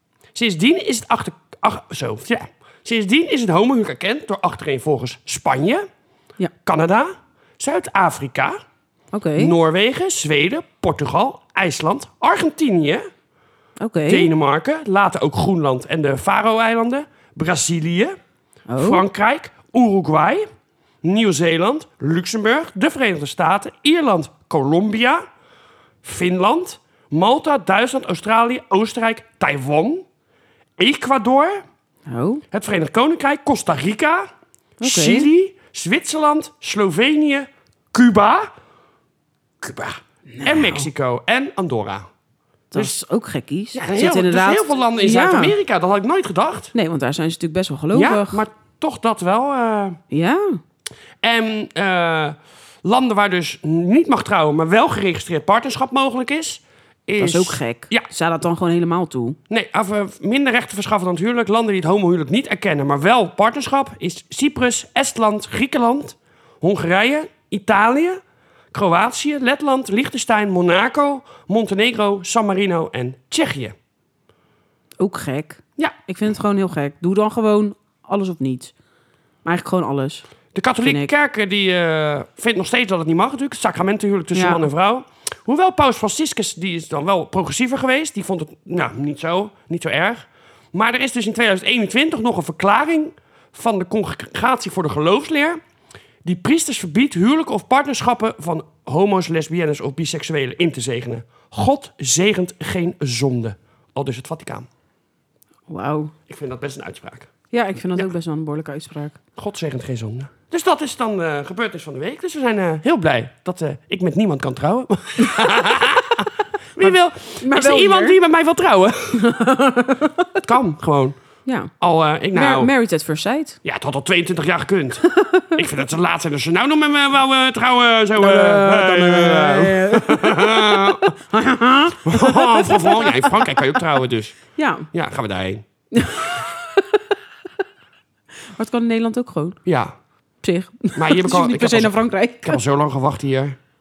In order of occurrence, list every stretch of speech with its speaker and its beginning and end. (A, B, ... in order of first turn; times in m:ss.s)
0:00.3-0:05.9 A
0:06.6-0:08.6 A
0:09.1-0:09.5 B
0:09.4-0:13.1 A
0:13.8-0:14.3 B
0:14.1-0:18.2 A
0:18.7-0:19.0 B
0:18.8-0:20.5 A
0:21.0-0:25.2 A
0:26.0-0:30.1 A
0:30.8-0:31.6 A
0:32.1-0:32.4 B
0:32.5-0:34.3 A
0:34.8-0:35.3 B
0:34.8-0:38.5 A
0:39.6-0:42.1 A
0:40.3-0:40.9 B
0:42.7-0:45.6 B
0:43.7-0:46.7 A
0:46.7-0:48.4 B
0:47.9-0:50.0 A
0:50.1-0:50.6 B
0:51.2-0:58.1 A
0:57.2-0:59.4 B
0:59.5-1:08.2 A
1:08.7-1:13.8 A
1:15.0-1:18.7 B
1:19.4-1:20.3 B
1:20.5-1:35.6 A
1:20.8-1:21.1 B
1:24.3-1:24.7 B
1:36.2-1:44.7 A
1:45.7-1:46.1 B
1:46.3-1:47.3 A
1:47.5-1:49.2 B
1:49.4-1:59.3 A
1:56.8-1:58.2 B
1:59.2-2:00.3 B
2:00.4-2:01.2 A
2:01.4-2:01.7 B
2:01.8-2:02.7 A
2:02.3-2:03.6 B
2:03.6-2:11.1 A
2:05.0-2:05.6 B
2:08.2-2:13.6 B
2:12.0-2:15.6 A
2:14.6-2:14.9 B
2:15.9-2:17.0 B
2:18.5-2:19.6 B
2:19.6-2:19.9 A
2:20.4-2:22.6 B
2:21.0-2:23.6 A